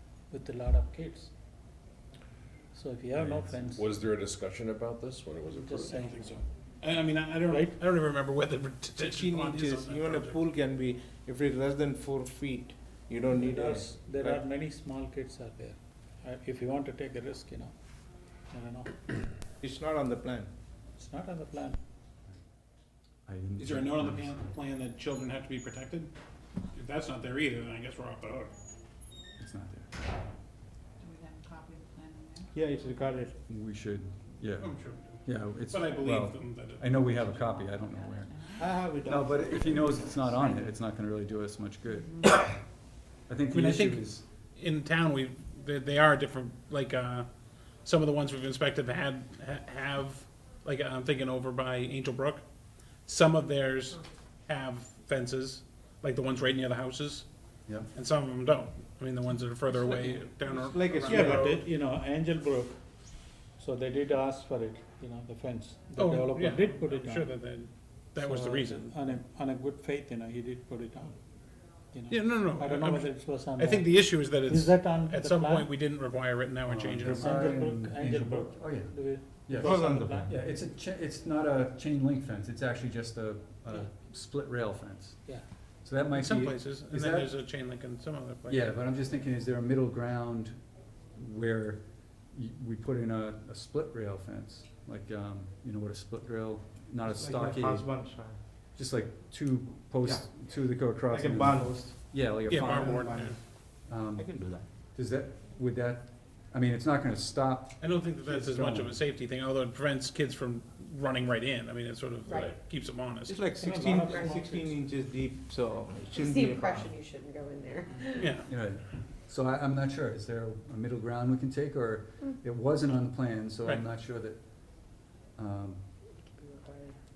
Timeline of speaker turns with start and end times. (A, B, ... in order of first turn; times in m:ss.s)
0:00.3-0:01.3 A
0:02.7-0:03.8 A
0:03.2-0:03.6 B
0:03.6-0:06.0 C
0:05.6-0:06.4 A
0:05.9-0:10.4 D
0:07.4-0:07.8 A
0:09.0-0:14.4 E
0:13.2-0:17.7 A
0:18.5-0:19.2 A
0:19.6-0:20.5 E
0:21.0-0:21.8 A
0:23.2-0:24.4 B
0:23.6-0:26.1 D
0:26.7-0:28.5 D
0:29.4-0:29.9 B
0:31.0-0:32.4 F
0:32.5-0:33.4 E
0:33.5-0:42.6 B
0:34.6-0:37.3 D
0:38.5-0:40.6 E
0:43.3-0:44.2 B
0:43.5-0:47.3 D
0:47.8-0:52.4 D
0:53.0-0:57.3 D
0:57.9-1:01.6 D
0:59.9-1:01.6 E
1:01.0-1:02.8 A
1:03.6-1:07.3 A
1:06.0-1:09.0 D
1:08.2-1:11.2 A
1:11.9-1:15.7 A
1:12.1-1:17.6 D
1:16.6-1:27.3 B
1:17.1-1:20.3 A
1:19.6-1:20.3 E
1:26.1-1:28.8 D
1:28.5-1:30.6 B
1:31.1-1:38.2 B
1:37.1-1:38.4 E
1:38.7-1:49.0 B
1:40.9-1:42.0 E
1:42.4-1:43.4 D
1:42.6-1:43.4 E
1:44.2-1:44.6 E
1:47.8-1:53.4 D
1:52.3-1:52.5 C
1:53.2-1:56.9 E
1:53.6-1:54.7 A
1:56.1-1:58.2 G
1:56.4-1:56.9 F
1:58.1-1:58.5 D
1:58.4-2:05.9 B
2:06.4-2:07.0 G